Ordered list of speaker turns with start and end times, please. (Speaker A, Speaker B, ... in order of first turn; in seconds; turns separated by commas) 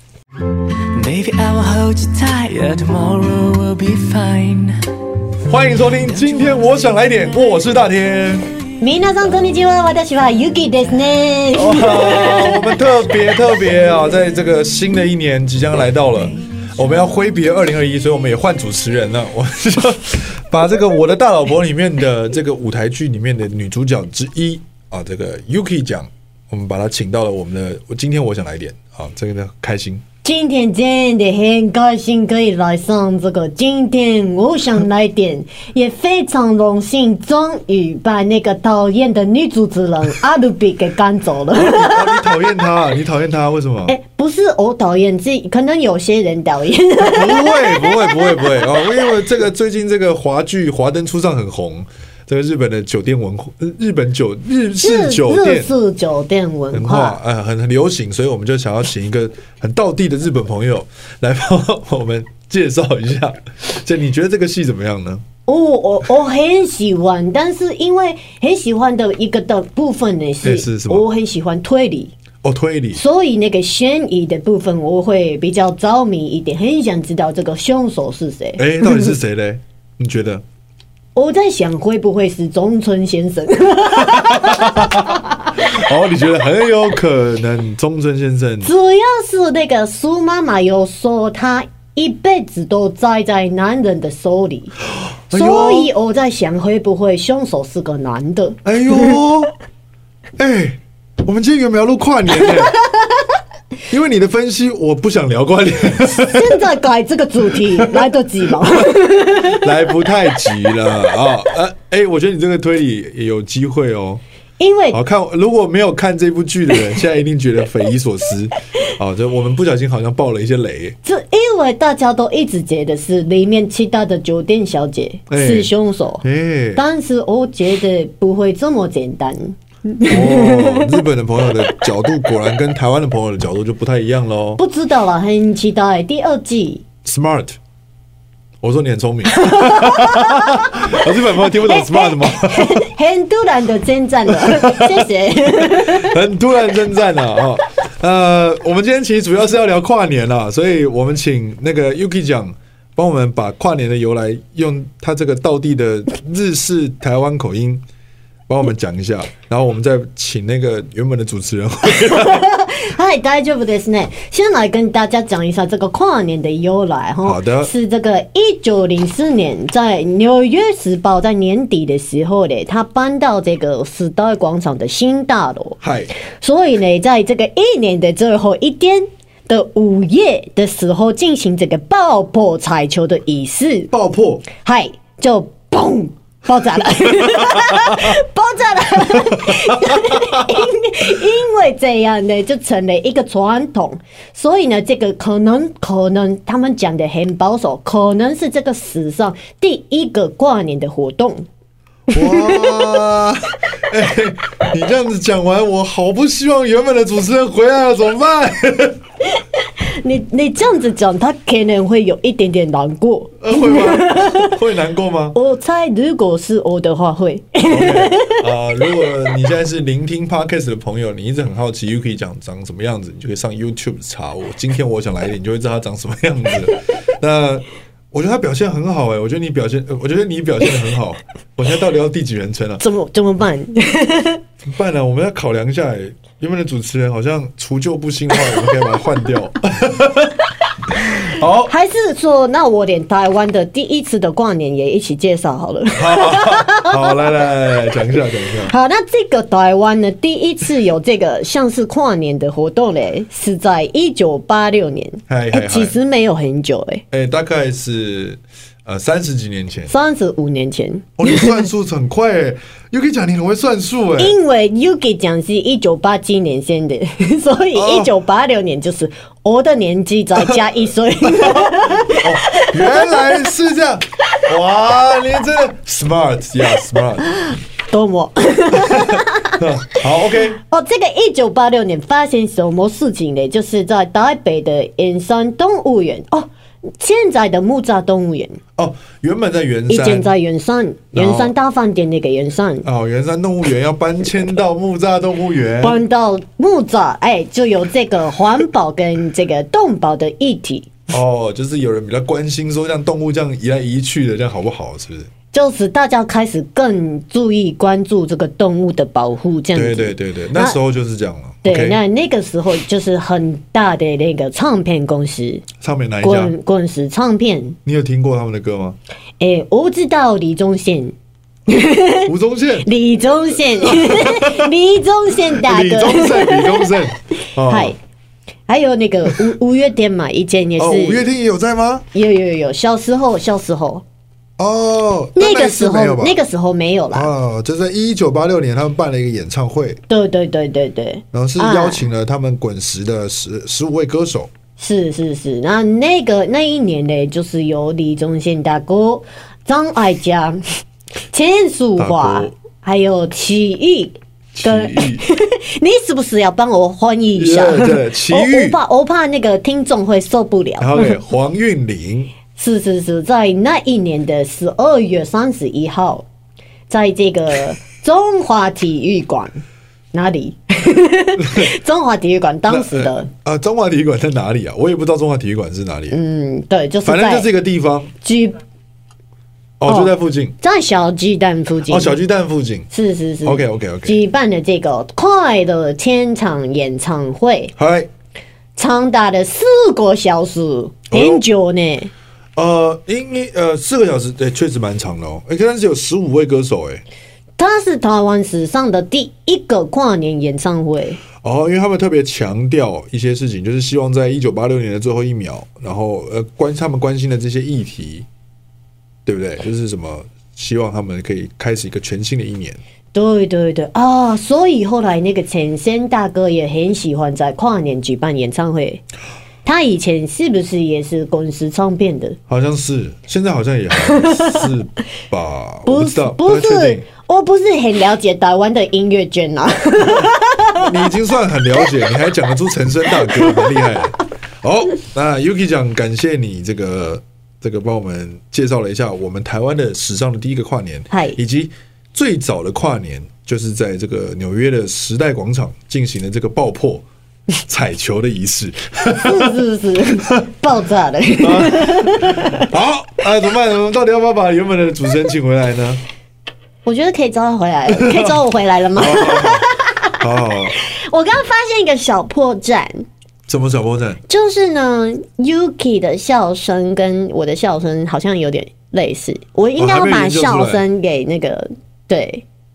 Speaker A: 0.9-4.8, Speaker B: 5.5-8.5, Speaker C: 8.8-12.7, Speaker B: 11.6-30.0, Speaker C: 30.2-42.4, Speaker B: 41.5-44.0, Speaker C: 43.9-49.1, Speaker B: 47.0-55.7, Speaker C: 54.8-57.2, Speaker B: 56.7-65.2, Speaker C: 65.5-72.1, Speaker B: 70.4-71.0, Speaker B: 72.4-73.0, Speaker C: 72.9-79.1, Speaker B: 78.6-80.4, Speaker C: 81.1-85.5, Speaker B: 84.0-88.7, Speaker C: 88.6-94.8, Speaker B: 95.3-95.9, Speaker C: 95.3-99.2, Speaker B: 98.6-99.5, Speaker B: 100.4-102.8, Speaker C: 102.4-102.9, Speaker B: 103.9-106.6, Speaker C: 106.1-109.7, Speaker B: 107.8-108.1, Speaker B: 109.3-114.2, Speaker C: 114.6-115.0, Speaker B: 114.9-121.0, Speaker C: 121.0-126.2, Speaker B: 125.3-125.7, Speaker B: 126.2-126.8, Speaker C: 126.7-130.9, Speaker B: 130.1-134.6, Speaker C: 134.6-136.8, Speaker B: 137.0-137.6, Speaker B: 138.6-142.8, Speaker C: 139.3-146.1, Speaker B: 144.4-157.8, Speaker B: 158.5-162.5, Speaker C: 161.9-175.8, Speaker B: 167.2-167.7, Speaker B: 175.8-176.1, Speaker C: 176.4-183.9, Speaker B: 183.9-184.5, Speaker C: 184.6-201.5, Speaker B: 187.4-188.1, Speaker B: 189.1-190.7, Speaker C: 202.1-203.0, Speaker B: 202.1-209.0, Speaker C: 209.4-214.5, Speaker B: 213.4-215.3, Speaker C: 215.3-218.4, Speaker B: 217.7-232.8, Speaker C: 232.8-234.4, Speaker B: 234.6-240.4, Speaker B: 240.9-241.7, Speaker C: 241.7-247.2, Speaker B: 245.9-248.7, Speaker C: 248.7-257.0, Speaker B: 255.3-255.9, Speaker B: 257.1-259.9, Speaker C: 259.9-261.6, Speaker B: 261.2-264.3, Speaker C: 264.2-273.4, Speaker B: 267.7-268.1, Speaker B: 271.3-277.3, Speaker C: 277.3-279.9, Speaker B: 278.7-280.6, Speaker C: 280.5-288.6, Speaker B: 288.8-290.3, Speaker C: 289.9-292.9, Speaker B: 291.1-291.5, Speaker B: 292.8-296.0, Speaker C: 295.8-300.9, Speaker B: 301.1-305.3, Speaker C: 305.5-310.8, Speaker B: 309.7-312.0, Speaker C: 311.6-315.6, Speaker B: 315.8-316.5, Speaker C: 316.2-317.8, Speaker B: 317.9-319.0, Speaker C: 319.4-321.1, Speaker C: 321.7-322.3, Speaker B: 322.2-322.9, Speaker C: 322.8-326.9, Speaker B: 323.8-324.7, Speaker B: 325.6-327.9, Speaker C: 327.4-327.9, Speaker C: 328.7-331.2, Speaker B: 330.8-332.0, Speaker C: 332.1-334.0, Speaker B: 334.6-336.4, Speaker C: 335.4-337.3, Speaker B: 337.1-340.0, Speaker C: 340.1-342.1, Speaker B: 341.3-344.5, Speaker C: 344.8-350.6, Speaker C: 351.3-361.1, Speaker B: 352.0-352.5, Speaker B: 354.5-355.2, Speaker B: 357.4-358.8, Speaker B: 360.8-362.3, Speaker C: 362.6-366.2, Speaker C: 366.9-369.6, Speaker C: 370.1-373.3, Speaker B: 371.4-371.7, Speaker B: 372.7-376.2, Speaker C: 376.1-377.5, Speaker B: 377.1-378.1, Speaker C: 378.2-378.6, Speaker B: 379.8-380.6, Speaker C: 379.8-382.2, Speaker B: 381.9-382.9, Speaker C: 382.9-387.7, Speaker B: 383.4-384.2, Speaker B: 387.8-388.1, Speaker C: 388.8-392.1, Speaker B: 391.1-391.4, Speaker B: 392.6-397.0, Speaker C: 397.6-401.2, Speaker B: 401.4-408.2, Speaker B: 409.2-412.8, Speaker C: 413.1-419.0, Speaker C: 419.6-422.4, Speaker B: 422.5-427.1, Speaker C: 424.1-424.5, Speaker C: 425.9-430.9, Speaker B: 430.8-447.0, Speaker C: 433.3-433.5, Speaker C: 441.1-441.4, Speaker B: 447.6-449.6, Speaker C: 449.1-452.7, Speaker B: 451.4-456.0, Speaker C: 456.8-463.0, Speaker B: 457.9-458.4, Speaker B: 458.9-459.7, Speaker B: 460.2-460.7, Speaker B: 463.5-464.2, Speaker C: 464.3-472.4, Speaker B: 469.8-470.8